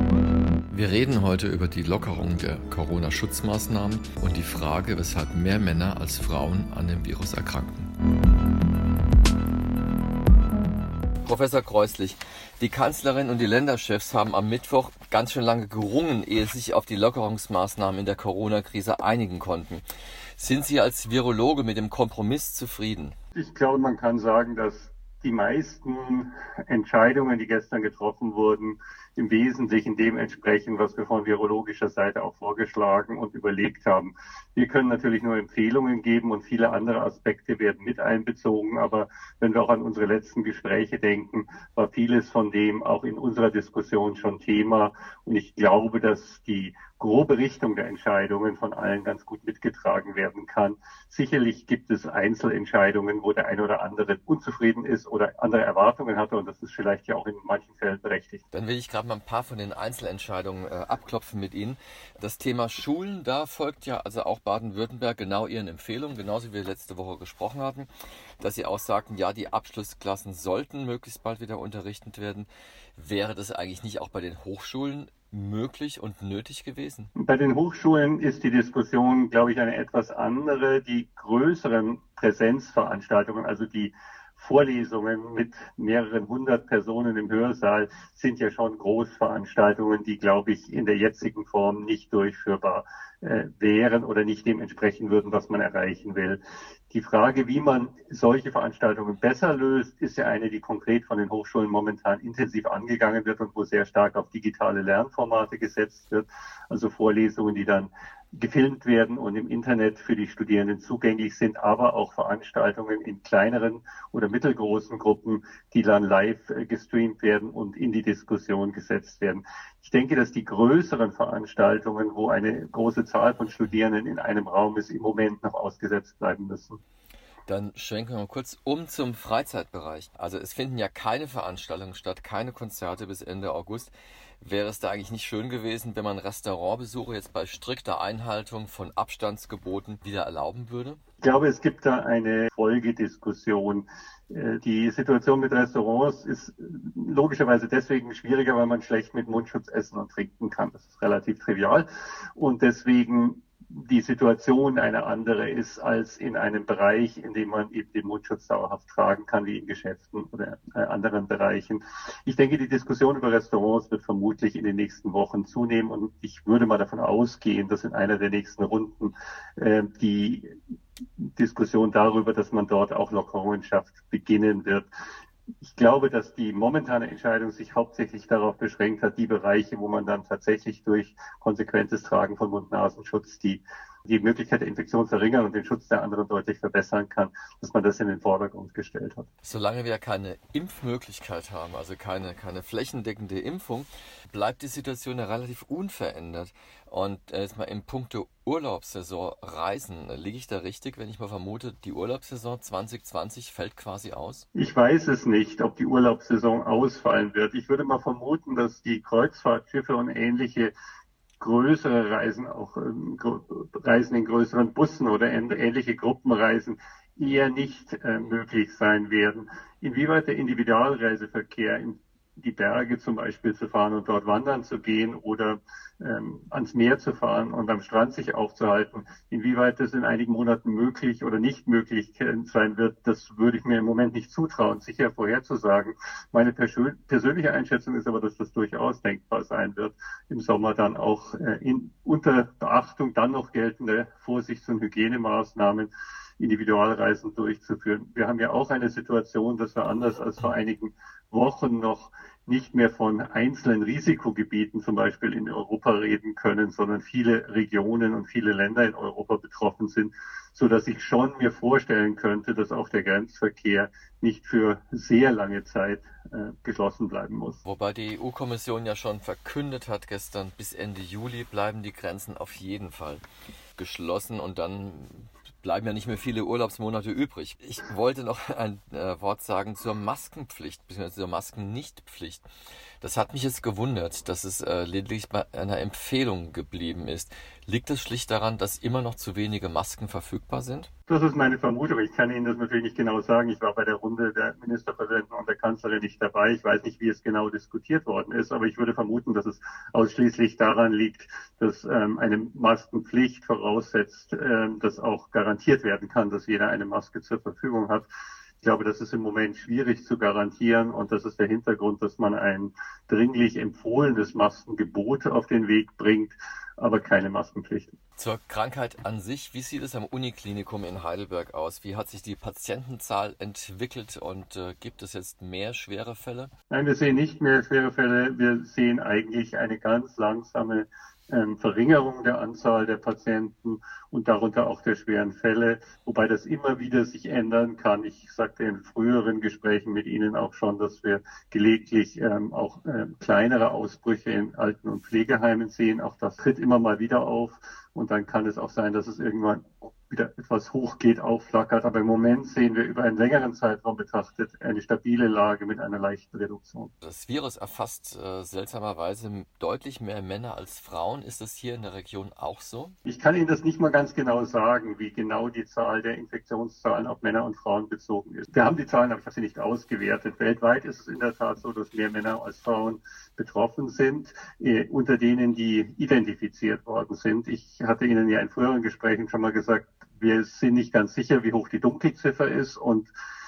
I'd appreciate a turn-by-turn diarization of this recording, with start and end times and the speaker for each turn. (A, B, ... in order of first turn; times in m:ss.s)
0:00.7-0:07.9 A
0:11.2-0:19.8 A
0:20.4-0:23.2 A
0:23.3-0:58.4 B
0:58.5-1:07.9 A
1:08.4-1:17.1 A
1:17.2-2:06.8 B
2:07.5-2:21.0 A
2:21.2-2:50.5 B
2:51.2-2:54.9 B
2:55.6-3:09.3 B
3:09.4-3:24.4 A
3:24.5-3:30.7 B
3:31.4-4:27.6 B
4:27.6-4:33.2 A
4:33.8-4:42.5 A
4:43.0-4:50.9 A
4:51.1-5:08.1 B
5:08.6-5:17.9 B
5:18.2-5:26.5 A
5:26.7-5:56.9 B
5:57.0-6:02.9 A
6:03.0-6:23.1 B